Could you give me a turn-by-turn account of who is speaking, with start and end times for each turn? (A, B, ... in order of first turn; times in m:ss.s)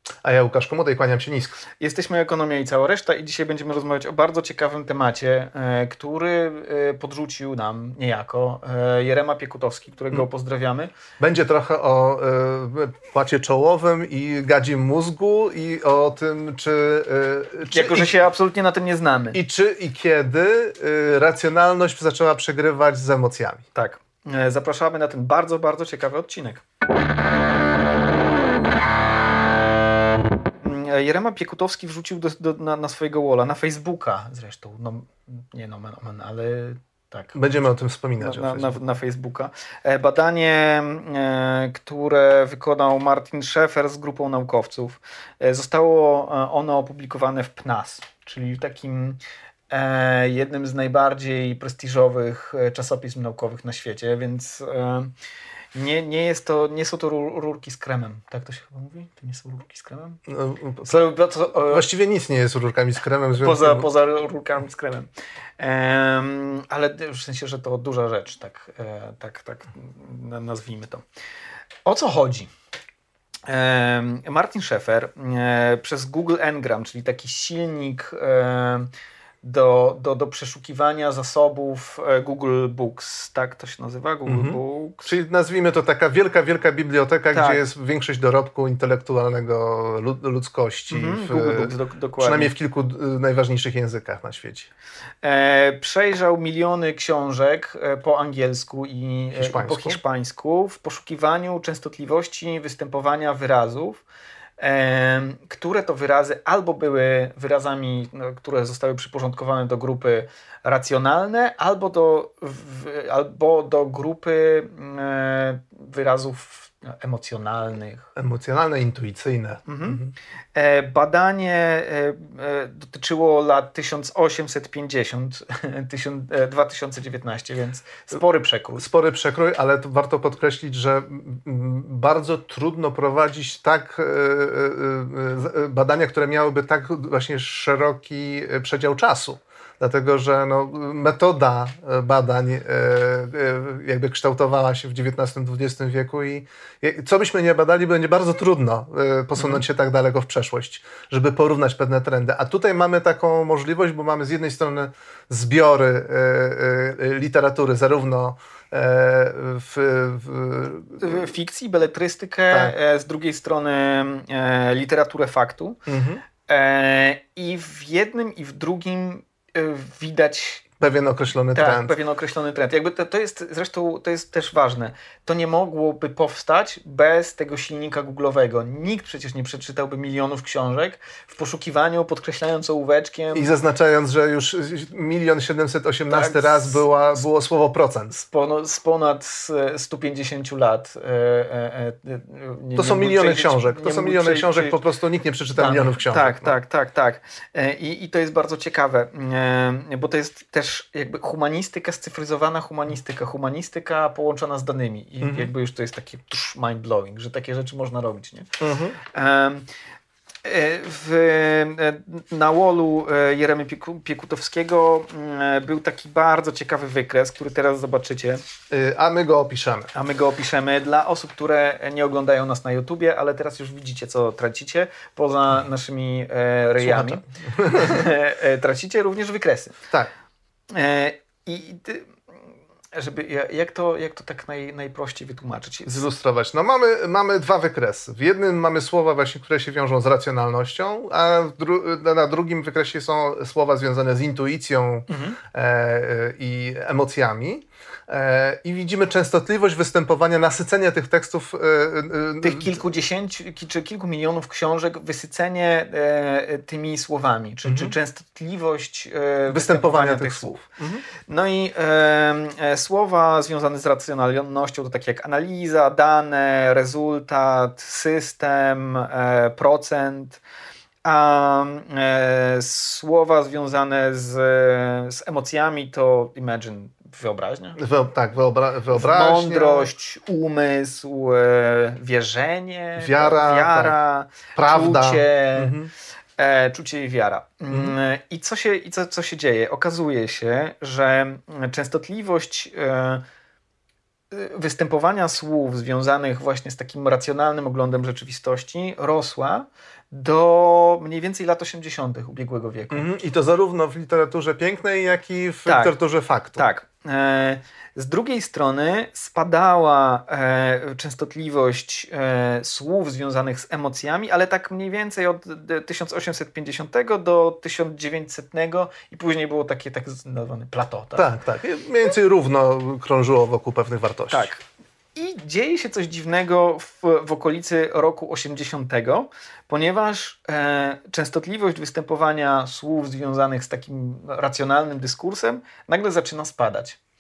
0:00.2-0:01.6 A
0:01.8-0:10.9 B
0:11.2-0:18.1 A
0:17.7-0:19.4 B
0:19.3-0:23.6 A
0:23.8-0:26.6 B
0:30.6-0:37.4 B
0:37.3-0:38.8 A
0:38.2-0:55.1 B
0:55.7-1:00.2 B
1:00.3-1:00.9 A
1:00.8-1:01.8 B
1:01.7-1:03.9 A
1:03.4-1:11.0 B
1:11.8-1:12.5 B
1:13.5-1:18.9 B
1:19.4-1:25.2 B
1:24.3-1:34.7 A
1:27.3-1:27.6 B
1:30.9-1:32.5 B
1:35.2-1:44.0 B
1:39.4-1:40.0 A
1:44.6-1:58.1 B
1:58.2-2:00.1 A
1:59.7-2:00.0 B
2:00.6-2:08.8 B
2:08.8-2:41.3 A
2:29.4-2:29.6 B
2:41.0-2:45.8 B
2:45.9-2:46.2 A
2:46.4-2:50.6 B
2:50.8-2:52.0 A
2:51.5-3:03.5 B
3:03.3-3:08.2 A
3:06.1-3:06.8 B
3:08.2-3:14.8 B
3:12.8-3:16.6 A
3:15.5-3:28.5 B
3:25.2-3:25.5 A
3:28.6-3:29.0 A
3:29.0-3:29.7 B
3:30.4-3:38.4 B
3:38.7-3:39.9 A
3:39.9-3:49.8 B
3:46.8-3:48.0 A
3:50.7-3:52.2 B
3:52.9-3:56.0 B
3:55.9-4:12.8 A
4:05.1-4:05.4 B
4:12.4-4:20.7 B
4:17.6-4:17.9 A
4:19.5-4:21.0 A
4:21.2-4:30.4 B
4:31.0-4:37.8 B
4:37.8-4:39.9 A
4:38.9-4:45.7 B
4:43.0-4:44.0 A
4:44.6-4:45.9 A
4:46.4-4:53.2 B
4:54.3-5:03.1 B
5:02.9-5:06.6 A
5:05.7-5:05.9 B
5:06.6-5:21.3 B
5:21.2-5:24.5 A
5:24.3-5:24.6 B
5:25.2-5:37.0 B